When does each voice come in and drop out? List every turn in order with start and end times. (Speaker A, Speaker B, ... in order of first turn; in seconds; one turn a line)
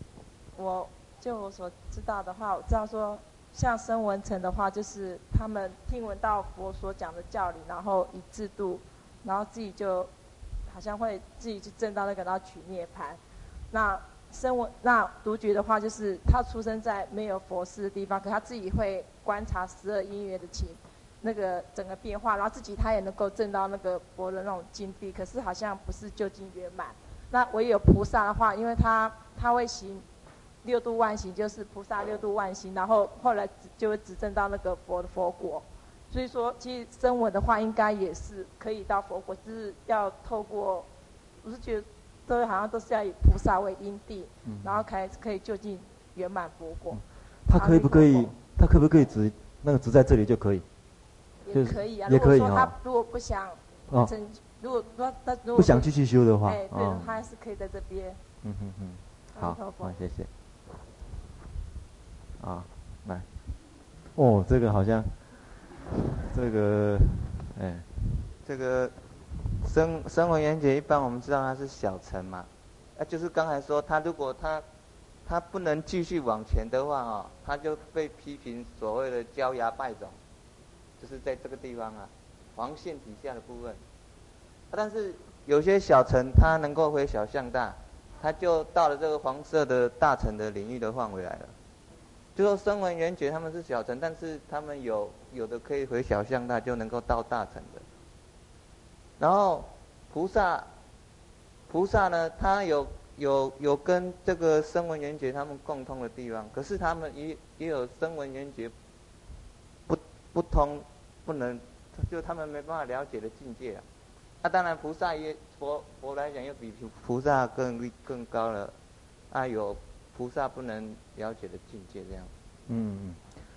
Speaker A: 0.6-10.1
Speaker A: 10.7-30.0
Speaker A: 30.6-40.9
Speaker A: 41.4-47.0
Speaker B: 44.4-44.8
Speaker B: 46.9-50.6
Speaker A: 47.5-48.3
Speaker A: 51.4-55.9
Speaker B: 51.5-52.7
Speaker B: 55.5-57.1
Speaker A: 56.4-58.2
Speaker B: 58.4-60.3
Speaker A: 59.3-59.9
Speaker B: 62.4-63.3
Speaker B: 64.1-65.2
Speaker B: 65.8-68.3
Speaker C: 68.4-68.9
Speaker C: 69.6-74.6
Speaker C: 75.2-80.2
Speaker C: 81.0-83.8
Speaker C: 84.7-91.5
Speaker C: 92.3-97.8
Speaker C: 99.2-100.7
Speaker C: 101.7-108.7
Speaker C: 109.9-113.8
Speaker C: 114.4-118.8
Speaker C: 119.3-122.3
Speaker B: 122.7-123.2